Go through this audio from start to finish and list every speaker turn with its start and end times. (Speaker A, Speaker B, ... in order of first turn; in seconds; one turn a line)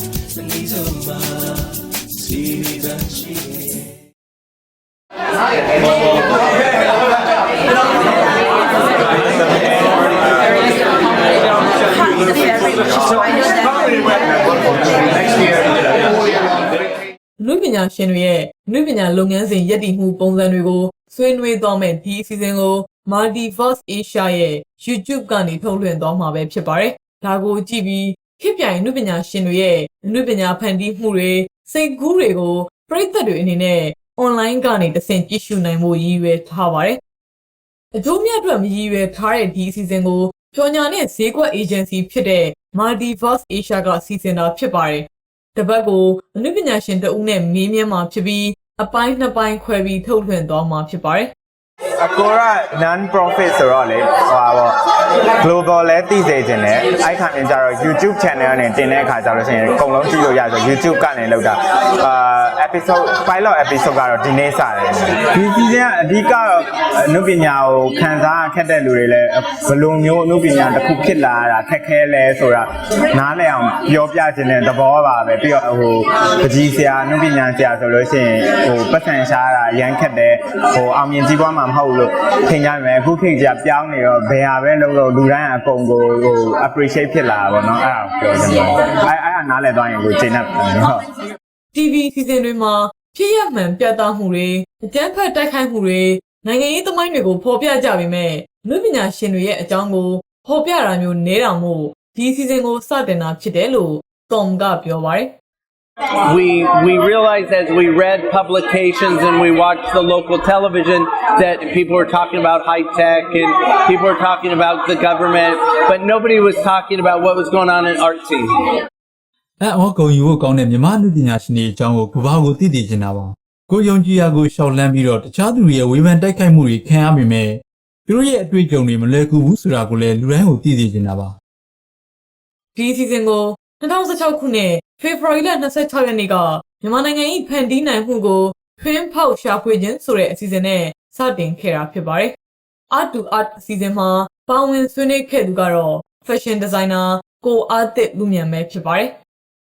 Speaker A: 0.3-3.8
Speaker B: 17.4-37.0
Speaker B: 37.9-51.3
Speaker C: 52.0-54.8
Speaker C: 55.4-91.1
Speaker B: 91.7-105.3
Speaker D: 106.3-118.5
Speaker E: 119.6-131.3
Speaker B: 132.7-142.3
Speaker B: 142.9-149.2